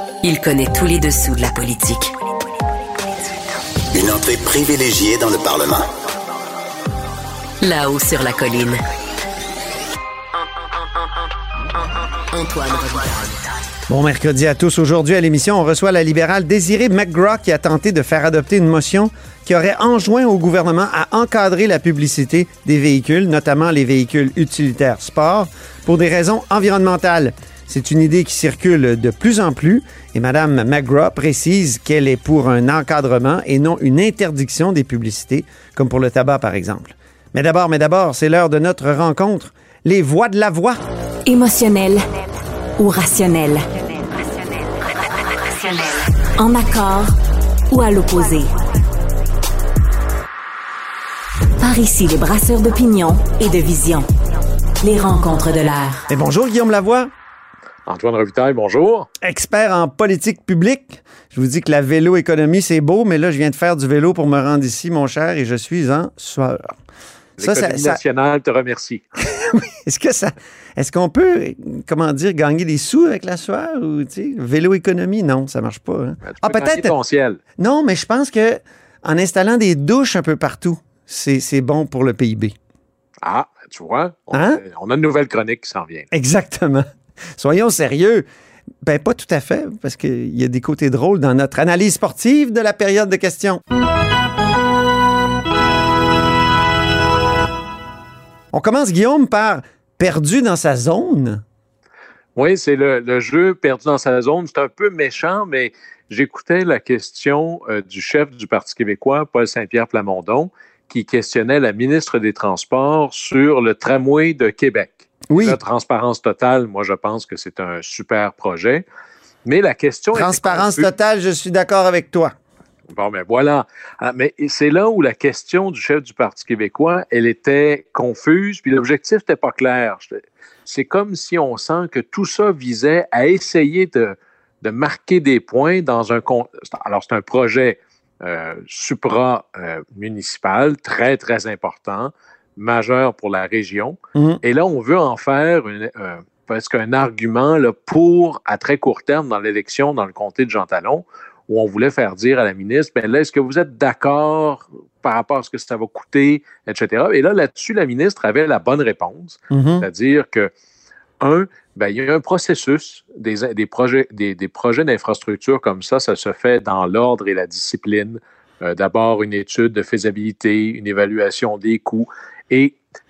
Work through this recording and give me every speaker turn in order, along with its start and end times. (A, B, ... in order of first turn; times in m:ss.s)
0:00.2-0:02.1 A
0:03.9-0:05.9 B
0:07.6-0:08.8 A
0:12.3-0:13.4 A
0:13.9-0:40.8 C
0:41.2-0:42.0 D
0:42.8-0:44.4 D
0:45.2-0:47.1 D
0:47.7-0:48.5 D
0:51.6-0:54.1 D
0:54.8-0:56.0 D
0:56.1-0:57.1 C
0:57.9-0:59.1 E
0:59.2-1:06.8 C
1:07.4-1:08.0 C
1:07.4-1:09.0 E
1:09.2-1:16.9 C
1:16.3-1:17.4 E
1:17.6-1:22.5 C
1:23.2-1:26.1 E
1:24.3-1:24.6 C
1:26.1-1:28.2 C
1:28.8-1:33.6 C
1:38.5-1:41.4 C
1:42.4-1:58.8 E
1:55.3-1:55.6 C
1:59.4-2:00.9 E
2:00.1-2:02.3 C
2:02.9-2:40.5 E
2:24.1-2:24.4 C
2:39.5-2:39.9 C
2:41.2-2:52.8 E